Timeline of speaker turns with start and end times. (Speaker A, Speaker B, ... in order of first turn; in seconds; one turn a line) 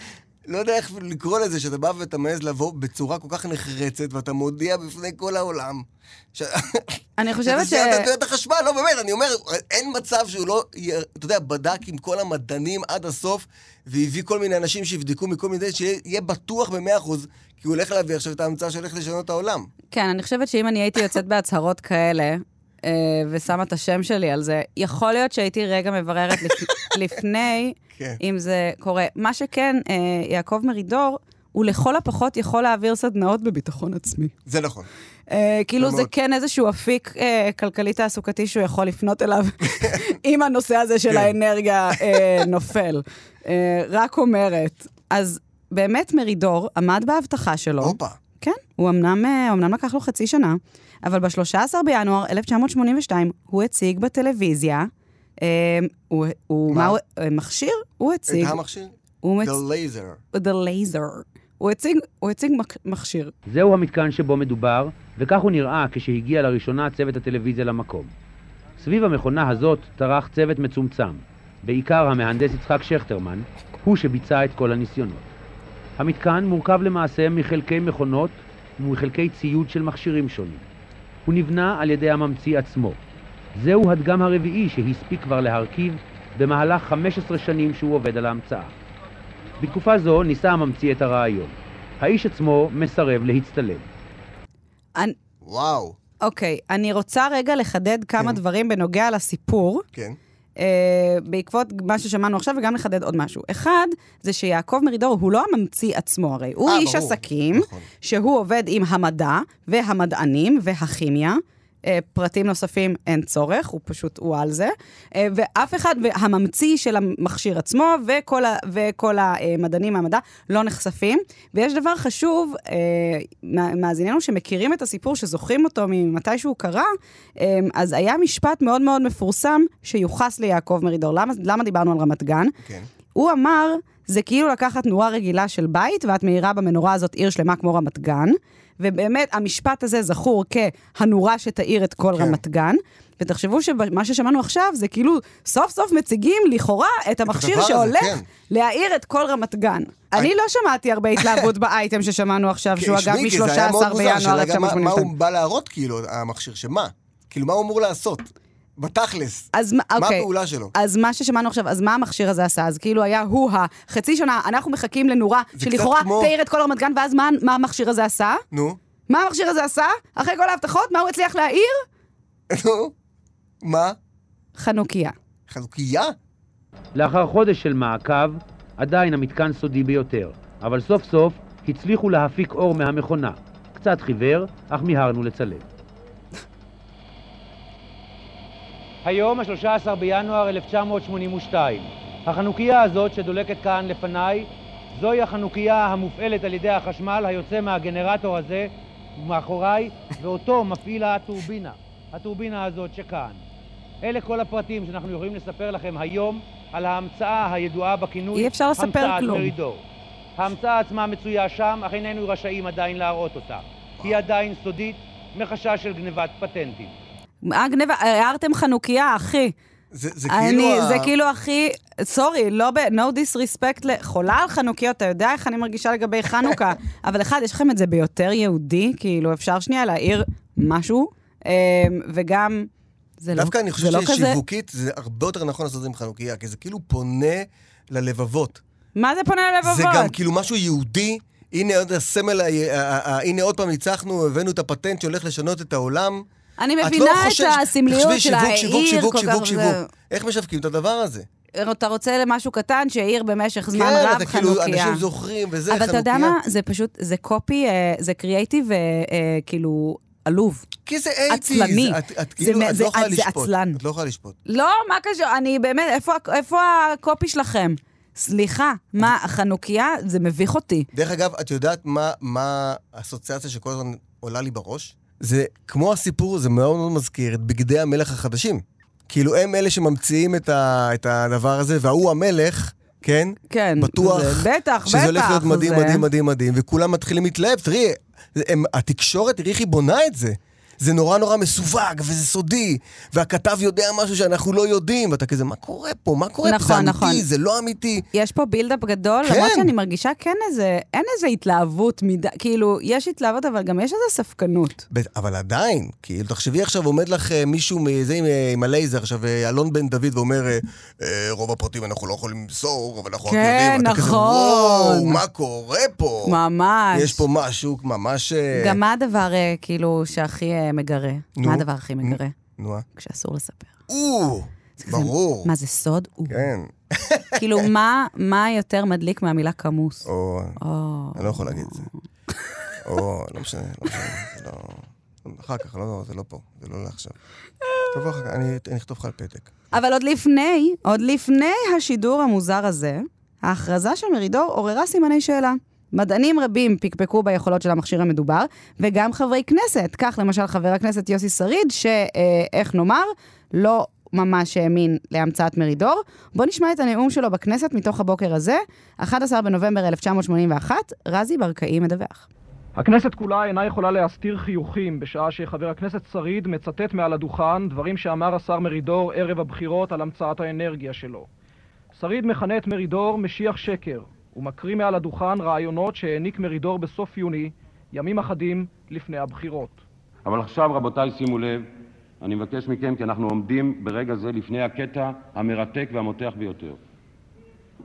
Speaker A: 0.5-19.7
Speaker B: 7.2-8.1
Speaker B: 19.9-34.3
Speaker A: 27.9-28.2
Speaker A: 34.5-34.9
Speaker B: 35.3-54.9
Speaker A: 35.8-36.1
Speaker A: 42.0-42.4
Speaker A: 47.8-48.2
Speaker B: 55.4-58.6
Speaker A: 56.7-57.0
Speaker A: 58.3-60.2
Speaker B: 59.2-59.6
Speaker B: 60.3-63.3
Speaker C: 63.5-68.1
Speaker C: 68.8-75.3
Speaker C: 76.0-80.6
Speaker C: 81.2-83.0
Speaker C: 83.5-88.7
Speaker C: 89.6-93.9
Speaker A: 95.4-96.0
Speaker B: 96.2-99.8
Speaker B: 100.6-132.5
Speaker A: 106.7-107.9
Speaker A: 132.6-132.9
Speaker B: 133.1-155.1
Speaker A: 142.1-142.4
Speaker A: 147.3-148.3
Speaker A: 151.2-151.5
Speaker A: 152.7-160.7
Speaker B: 159.5-168.4
Speaker A: 165.5-166.3
Speaker A: 168.5-168.8
Speaker B: 169.1-171.8
Speaker A: 172.5-172.9
Speaker A: 173.6-174.0
Speaker B: 174.6-175.1
Speaker A: 175.5-176.1
Speaker C: 176.9-185.6
Speaker C: 189.0-203.4
Speaker C: 204.0-209.8
Speaker B: 208.3-209.5
Speaker C: 210.4-216.9
Speaker B: 217.4-219.5
Speaker A: 219.9-221.1
Speaker B: 220.3-232.7
Speaker B: 233.2-234.4
Speaker A: 233.3-238.6
Speaker B: 238.9-240.1
Speaker A: 239.6-246.2
Speaker B: 246.6-249.9
Speaker A: 246.8-251.3
Speaker B: 251.6-255.0
Speaker A: 253.7-256.4
Speaker B: 255.7-260.6
Speaker A: 260.9-264.4
Speaker B: 261.3-263.8
Speaker B: 264.5-270.9
Speaker A: 270.9-298.0
Speaker B: 283.5-286.0
Speaker B: 296.4-297.2
Speaker B: 298.1-304.8
Speaker A: 299.2-299.7
Speaker A: 304.9-316.4
Speaker B: 313.2-315.2
Speaker B: 316.2-317.2
Speaker A: 316.9-318.8
Speaker B: 318.5-322.3
Speaker A: 321.4-322.8
Speaker B: 322.9-323.7
Speaker A: 323.9-325.5
Speaker B: 324.8-326.5
Speaker A: 326.3-327.7
Speaker B: 327.4-330.1
Speaker A: 330.1-330.6
Speaker B: 330.6-331.9
Speaker A: 331.1-331.9
Speaker A: 332.8-337.1
Speaker B: 337.7-337.9
Speaker A: 337.9-339.5
Speaker B: 339.7-362.3
Speaker D: 362.8-371.3
Speaker D: 371.9-379.8
Speaker E: 380.2-381.7
Speaker E: 382.2-386.8